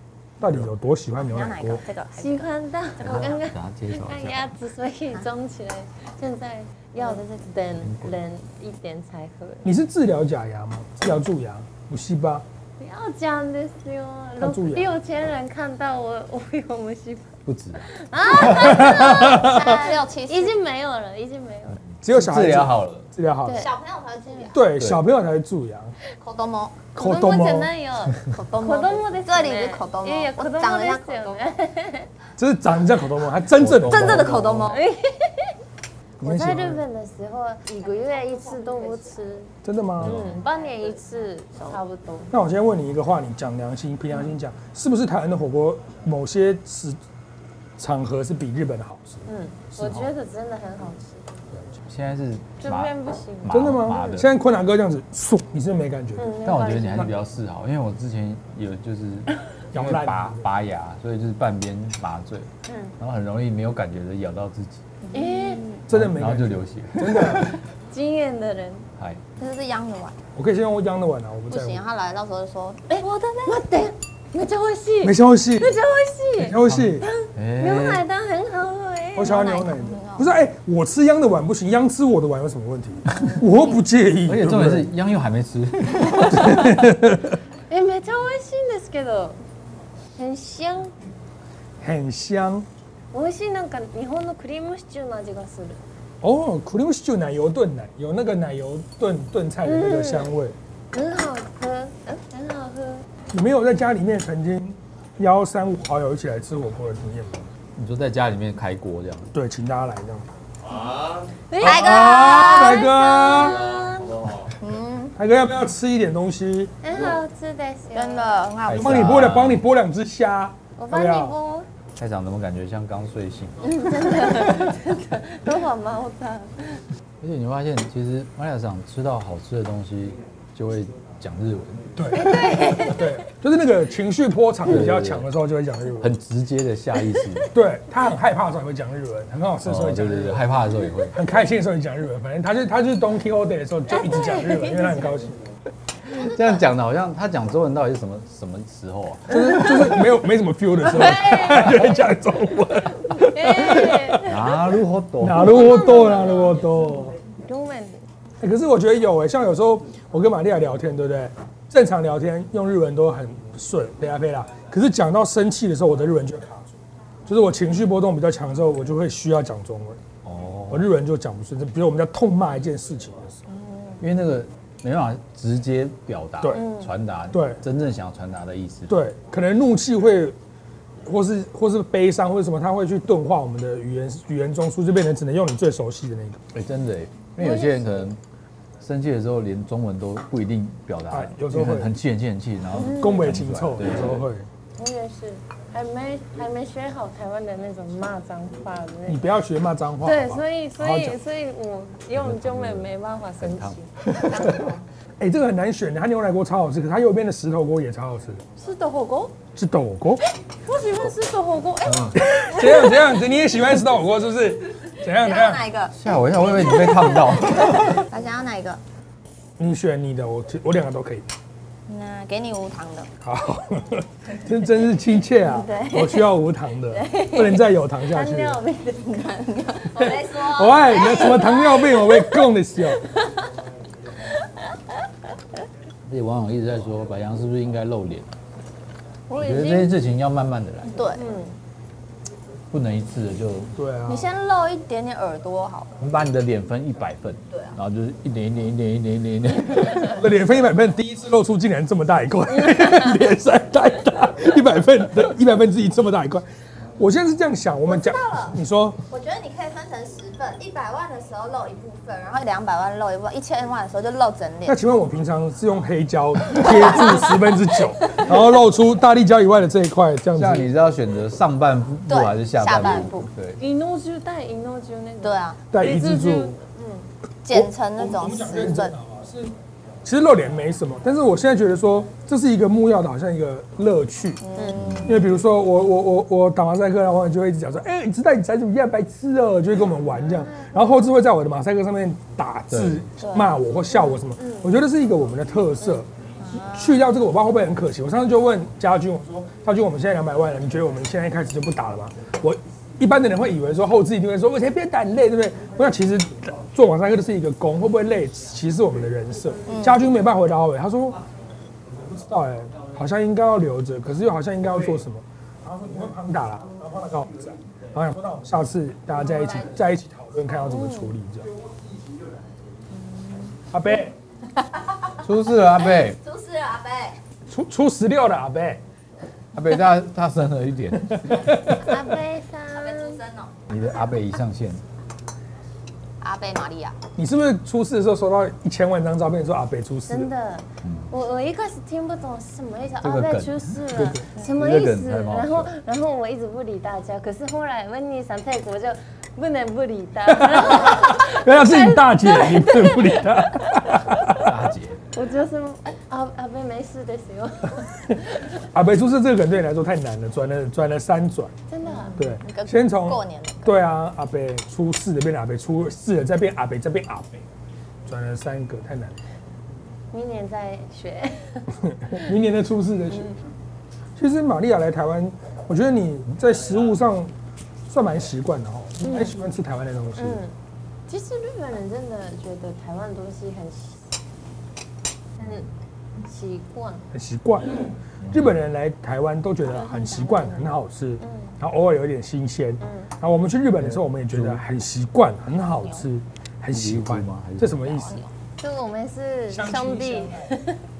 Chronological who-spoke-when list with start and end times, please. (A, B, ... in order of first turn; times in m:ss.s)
0:00.4-0:01.8 A
0:01.2-0:02.5 B
0:02.2-0:09.7 C
0:03.0-0:04.5 D
0:07.0-0:07.5 B
0:07.8-0:08.2 D
0:09.6-0:12.4 A
0:12.8-0:21.8 C
0:14.4-0:15.0 A
0:17.5-0:18.8 D
0:18.3-0:20.6 B
0:18.5-0:19.7 A
0:21.8-0:23.1 D
0:22.0-0:23.7 A
0:23.4-0:23.7 C
0:23.5-0:24.6 B
0:24.5-0:25.9 A
0:26.2-0:26.8 B
0:26.9-0:27.7 A
0:27.0-0:32.1 C
0:28.3-0:31.5 B
0:32.4-0:34.3 A
0:33.5-0:34.8 D
0:33.9-0:34.8 B
0:34.7-0:35.5 C
0:36.2-0:36.8 A
0:36.2-0:42.3 C
0:37.8-0:39.2 B
0:39.6-0:40.2 A
0:40.0-0:40.4 D
0:40.3-0:41.8 B
0:42.3-0:47.0 A
0:47.8-0:50.1 A
0:49.2-0:51.4 C
0:51.9-0:52.9 D
0:52.6-0:53.6 C
0:53.4-0:54.3 D
0:53.5-0:57.1 A
0:56.2-0:57.1 C
0:56.4-1:04.8 D
0:59.7-1:00.5 A
1:02.7-1:02.9 C
1:05.1-1:05.8 B
1:05.1-1:05.7 C
1:05.9-1:07.6 A
1:05.9-1:07.6 D
1:07.9-1:08.9 C
1:09.4-1:10.2 B
1:10.4-1:11.8 A
1:11.5-1:13.6 B
1:12.9-1:19.5 C
1:15.0-1:15.8 A
1:16.4-1:17.1 A
1:16.6-1:18.0 D
1:19.2-1:24.9 A
1:19.2-1:20.3 B
1:24.2-1:26.8 D
1:26.3-1:27.4 A
1:27.7-1:29.4 C
1:30.2-1:30.9 C
1:31.8-1:32.7 A
1:33.1-1:35.8 C
1:36.2-1:40.6 A
1:39.6-1:40.3 C
1:40.9-1:43.1 C
1:43.3-1:47.5 A
1:47.8-1:49.3 D
1:49.3-1:50.3 A
1:50.8-1:54.3 C
1:51.6-1:52.8 B
1:51.6-1:53.7 A
1:54.6-1:55.2 B
1:55.2-1:56.7 A
1:56.8-1:58.4 C
1:57.9-1:59.2 B
1:58.7-1:59.6 D
1:58.7-2:01.4 A
2:00.8-2:01.7 C
2:02.0-2:03.8 D
2:03.6-2:06.8 C
2:07.2-2:11.9 D
2:12.0-2:16.1 A
2:12.1-2:13.1 C
2:14.7-2:15.3 D
2:16.0-2:17.5 D
2:17.5-2:20.5 A
2:19.6-2:21.2 D
2:21.1-2:25.4 A
2:23.9-2:25.0 C
2:26.1-2:29.7 D
2:29.3-2:34.4 A
2:31.1-2:31.8 C
2:33.1-2:34.3 C
2:34.2-2:35.8 D
2:35.2-2:37.2 A
2:35.4-2:36.7 C
2:37.5-2:38.0 C
2:38.4-2:46.7 A
2:47.3-2:50.0 A
2:50.2-2:50.9 D
2:50.7-2:53.4 A
2:53.5-2:54.0 B
2:54.0-2:59.0 D
2:56.4-2:56.7 A
2:56.5-2:56.9 C
2:57.3-2:57.6 A
2:58.9-3:00.4 A
3:01.0-3:06.4 A
3:06.5-3:08.2 D
3:07.4-3:07.9 C
3:08.8-3:14.3 D
3:11.1-3:11.9 A
3:12.8-3:14.5 A
3:12.8-3:13.2 C
3:14.8-3:19.2 C
3:19.1-3:21.2 A
3:20.0-3:24.8 C
3:22.1-3:23.8 D
3:24.1-3:28.4 A
3:28.6-3:29.3 C
3:29.6-3:30.2 A
3:30.7-3:33.1 C
3:31.8-3:32.2 D
3:32.2-3:35.7 A
3:35.2-3:35.9 B
3:35.9-3:38.1 D
3:36.5-3:38.8 B
3:39.6-3:41.3 A
3:41.9-3:43.1 B
3:43.2-3:48.6 A
3:45.4-3:46.3 B
3:46.9-3:47.6 B
3:48.1-3:49.0 C
3:48.9-3:52.2 B
3:50.0-3:53.0 A
3:56.1-3:58.3 D
3:59.3-3:59.9 C
3:59.4-4:01.0 D
4:00.9-4:01.3 B
4:01.1-4:01.6 C
4:02.7-4:03.7 D
4:03.8-4:04.3 A
4:04.1-4:05.9 B
4:06.0-4:10.2 D
4:10.0-4:16.4 A
4:17.0-4:19.0 A
4:17.9-4:18.6 B
4:19.1-4:24.8 B
4:24.6-4:30.7 A
4:30.4-4:33.6 D
4:32.1-4:33.3 B
4:33.6-4:37.1 C
4:35.2-4:35.6 B
4:35.7-4:36.6 A
4:37.4-4:38.9 B
4:37.5-4:44.4 A
4:44.4-4:45.0 B
4:44.7-4:45.2 D
4:45.0-5:11.2 A
4:50.4-4:51.0 C
4:52.7-4:53.1 D
4:53.2-4:53.6 B
4:54.1-4:54.7 C
4:56.4-4:57.0 B
5:09.7-5:10.0 B
5:11.9-5:21.5 A
5:20.7-5:21.1 C
5:22.9-5:23.6 B
5:23.7-5:24.1 A
5:25.2-5:26.2 D
5:25.8-5:27.2 B
5:27.5-5:28.8 A
5:29.6-5:31.6 D
5:31.1-5:31.9 A
5:31.7-5:33.2 C
5:32.7-5:33.6 B
5:33.7-5:34.8 D
5:36.2-5:37.0 B
5:37.2-5:40.3 A
5:40.1-5:54.2 C
5:40.8-5:41.1 D
5:43.0-5:45.7 D
5:50.4-5:54.5 A
5:54.3-5:55.0 D
5:55.1-5:58.5 C
5:58.7-6:01.5 A
6:01.7-6:02.3 C
6:01.8-6:03.8 B
6:02.2-6:07.4 A
6:08.1-6:09.2 A
6:10.1-6:12.2 C
6:11.8-6:13.4 A
6:14.2-6:17.3 A
6:17.9-6:20.4 A
6:19.0-6:19.3 C
6:20.2-6:20.5 C
6:21.1-6:24.1 C
6:25.4-6:27.1 C
6:27.1-6:38.2 A
6:28.2-6:28.5 D
6:31.2-6:31.5 C
6:32.8-6:33.1 C
6:33.8-6:34.6 D
6:36.7-6:38.0 D
6:37.9-6:38.3 B
6:38.6-6:40.8 C
6:39.5-6:40.5 A